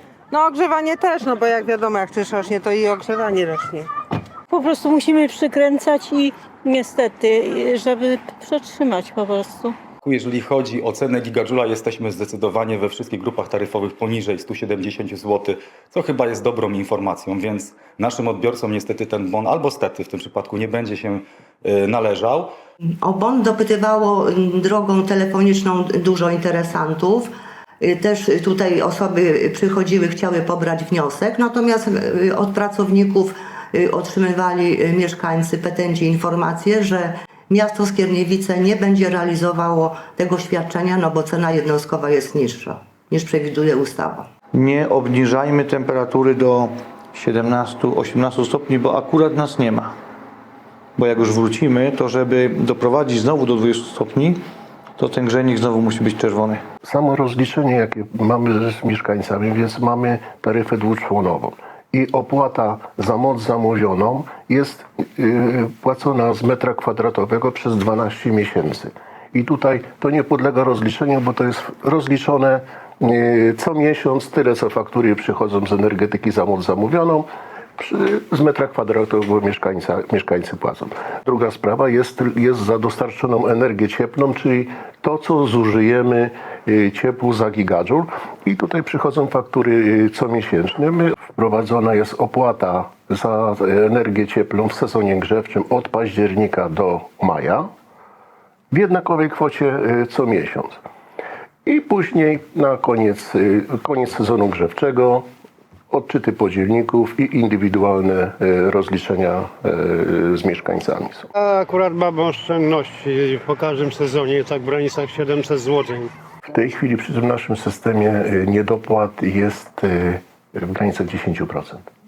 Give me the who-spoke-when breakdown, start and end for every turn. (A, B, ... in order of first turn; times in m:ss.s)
0:00.3-0:03.9 A
0:04.5-0:09.8 B
0:10.0-0:22.5 C
0:23.0-0:44.3 D
0:44.5-0:49.9 E
0:51.0-0:54.4 E
0:55.0-0:56.6 E
0:56.8-1:37.7 F
1:38.7-1:40.8 F
1:41.6-1:45.2 F
1:45.9-1:51.3 F
1:51.4-1:56.1 G
1:56.5-2:01.9 F